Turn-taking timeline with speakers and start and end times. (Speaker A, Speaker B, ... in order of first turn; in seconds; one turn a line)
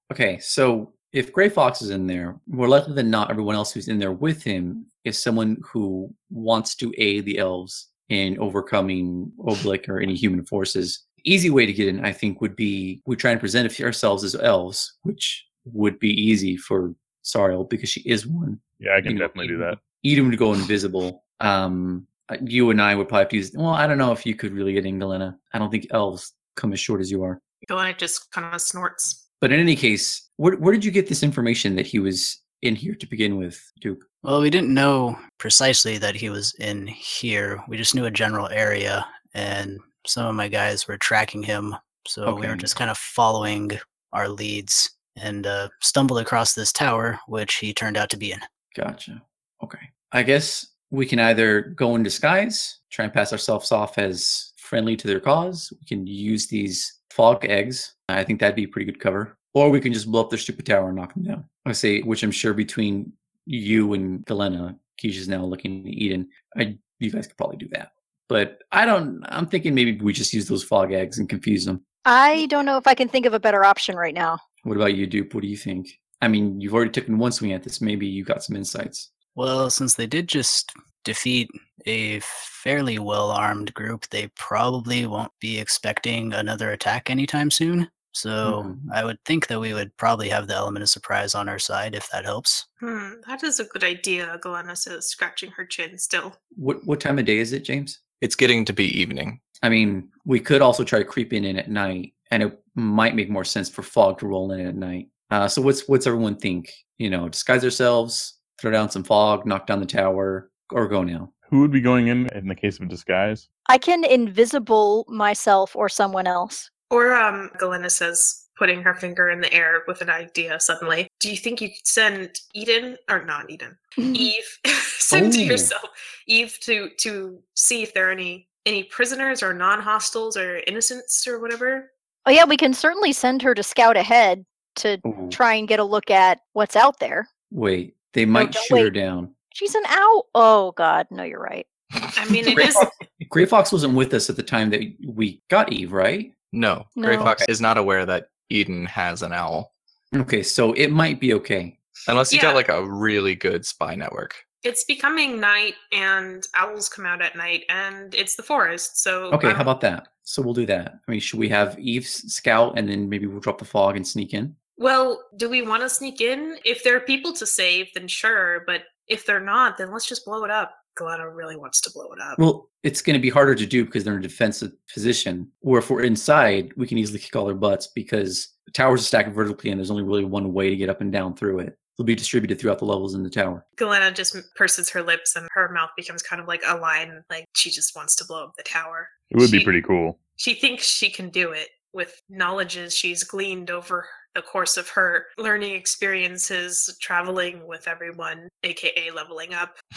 Speaker A: 0.1-27.4
Speaker B: 18.8-19.8
Speaker C: 27.6-29.2
Speaker A: 29.4-34.0
Speaker D: 34.2-48.4
Speaker A: 42.2-42.7
Speaker A: 48.7-71.8
Speaker E: 72.0-74.4
Speaker A: 74.6-79.1
Speaker D: 79.3-92.7
Speaker A: 88.4-88.9
Speaker C: 92.8-96.4
Speaker A: 96.5-98.0
Speaker F: 98.2-99.4
Speaker A: 99.6-111.3
Speaker B: 111.5-113.4
Speaker E: 113.7-116.7
Speaker C: 116.9-131.9
Speaker A: 125.1-125.7
Speaker E: 132.2-137.3
Speaker A: 135.0-135.4
Speaker A: 137.5-139.3
Speaker E: 138.3-138.9
Speaker E: 139.5-141.7
Speaker C: 142.1-142.9
Speaker A: 142.5-142.7
Speaker A: 143.3-146.3
Speaker F: 146.5-149.7
Speaker E: 147.0-147.3
Speaker A: 147.2-147.5
Speaker A: 150.1-151.8
Speaker F: 152.1-154.4
Speaker C: 152.3-152.6
Speaker C: 154.6-159.7
Speaker A: 159.3-164.6
Speaker C: 164.8-172.4
Speaker A: 172.4-183.6
Speaker C: 183.8-189.7
Speaker B: 189.3-190.2
Speaker C: 190.4-199.8